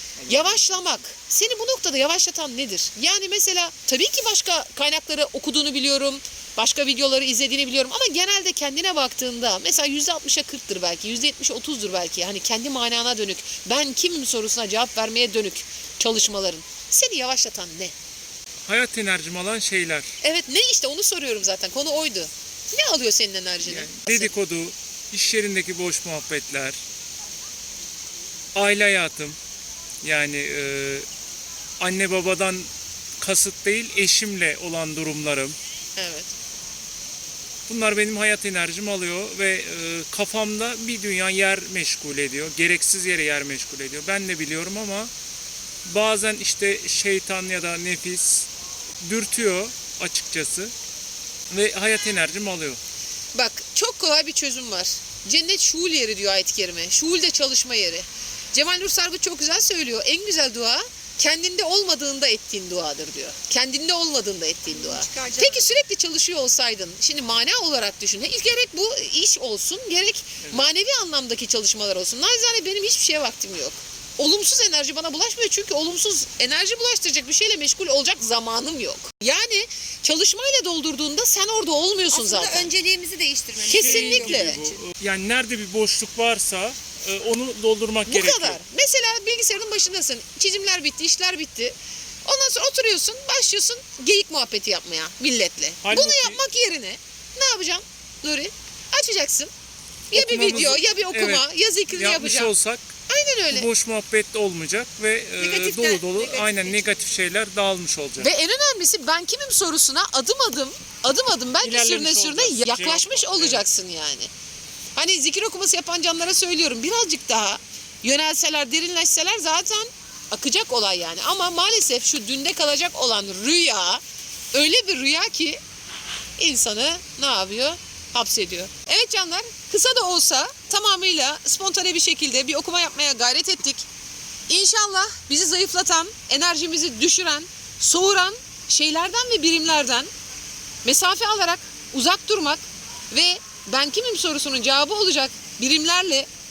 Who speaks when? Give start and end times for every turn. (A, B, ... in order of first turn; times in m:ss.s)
0:00.2-0:17.9 A
0:18.7-0:20.1 B
0:20.2-0:24.3 A
0:23.6-0:26.8 B
0:28.6-0:29.4 B
0:30.0-0:31.1 B
0:31.8-0:32.7 B
0:33.2-0:35.6 B
0:36.0-0:36.3 A
0:37.7-0:45.1 B
0:45.9-0:48.5 B
0:49.0-0:50.7 B
0:51.5-0:52.8 B
0:53.3-1:22.7 A
1:04.7-1:05.7 C
1:22.1-1:24.8 C
1:23.6-1:28.6 B
1:23.7-1:24.6 A
1:28.1-1:39.5 A
1:35.8-1:36.4 B
1:40.1-1:42.5 A
1:40.1-1:42.9 B
1:43.1-1:43.7 A
1:43.5-1:48.3 B
1:45.4-1:46.9 C
1:48.2-1:54.3 A
1:51.6-1:53.6 B
1:55.0-2:05.6 A
2:06.4-2:13.9 A
2:14.5-2:20.1 A
2:20.8-2:26.3 A